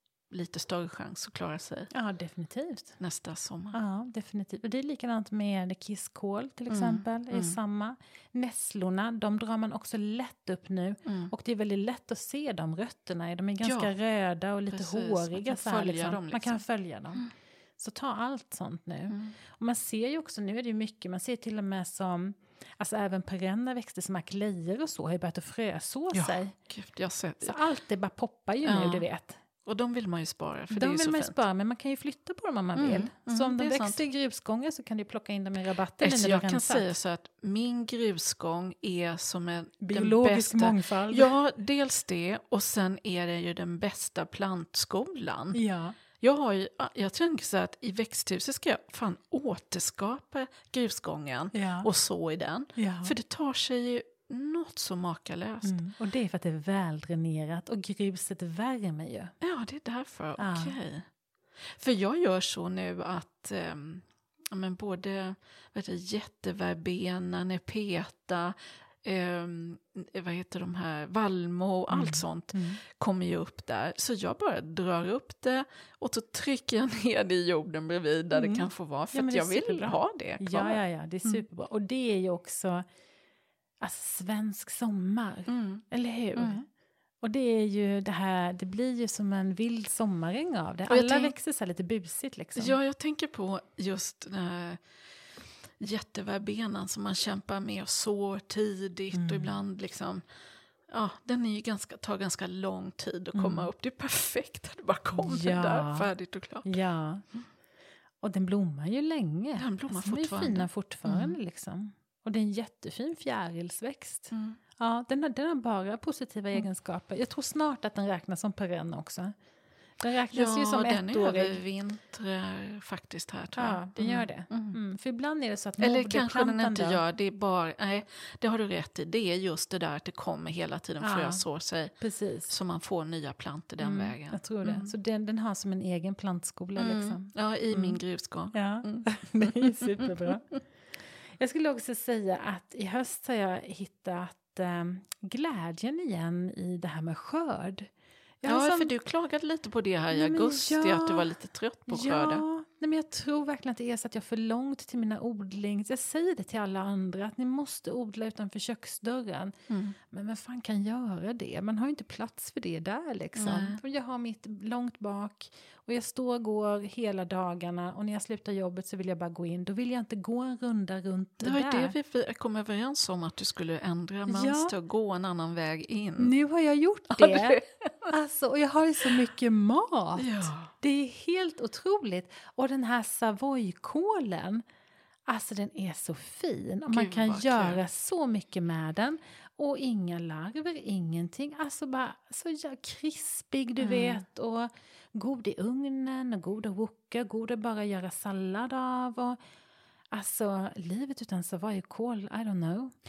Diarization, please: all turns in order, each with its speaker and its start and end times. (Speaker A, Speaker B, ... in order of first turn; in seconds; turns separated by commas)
Speaker A: 0.3-1.9, Speaker B: 1.9-3.0, Speaker A: 3.0-3.8, Speaker B: 3.7-17.3, Speaker A: 6.7-7.6, Speaker A: 11.1-11.3, Speaker A: 13.6-13.9, Speaker A: 14.7-16.6, Speaker B: 17.8-26.5, Speaker A: 26.1-27.6, Speaker B: 27.4-29.4, Speaker A: 28.6-29.0, Speaker A: 29.6-31.4, Speaker B: 30.7-36.9, Speaker A: 32.8-34.0, Speaker A: 36.0-45.6, Speaker B: 39.8-41.3, Speaker B: 45.5-46.0, Speaker A: 46.2-55.8, Speaker B: 51.5-51.9, Speaker B: 52.8-53.1, Speaker B: 55.6-59.3, Speaker A: 59.4-61.0, Speaker B: 60.4-60.7, Speaker A: 61.7-81.4, Speaker B: 71.9-72.8, Speaker B: 78.3-82.8, Speaker B: 83.8-86.7, Speaker A: 85.5-85.8, Speaker B: 87.2-92.8, Speaker A: 90.9-91.3, Speaker A: 92.5-94.8, Speaker A: 95.8-100.2, Speaker B: 99.1-99.5, Speaker A: 100.9-106.7, Speaker B: 103.3-103.7, Speaker B: 105.1-106.1, Speaker B: 106.7-107.2, Speaker B: 108.2-119.3, Speaker A: 109.6-111.3, Speaker A: 114.3-114.6, Speaker B: 120.0-121.6, Speaker A: 120.3-124.8, Speaker B: 123.6-127.0, Speaker A: 125.8-134.9, Speaker B: 131.0-131.4, Speaker B: 132.0-132.5, Speaker B: 133.8-138.0, Speaker A: 136.8-140.1, Speaker B: 138.5-140.6, Speaker B: 141.4-147.9, Speaker B: 148.4-148.9, Speaker A: 148.4-152.4, Speaker B: 150.1-151.2, Speaker B: 151.9-159.5, Speaker A: 159.7-160.0, Speaker B: 160.1-171.9, Speaker A: 163.3-163.8, Speaker A: 171.4-176.3, Speaker B: 174.3-174.7, Speaker B: 176.2-177.6, Speaker A: 177.1-178.1, Speaker B: 178.1-184.6, Speaker A: 180.2-180.7, Speaker B: 185.3-199.4, Speaker A: 186.9-187.8, Speaker A: 193.8-194.2, Speaker B: 200.1-202.9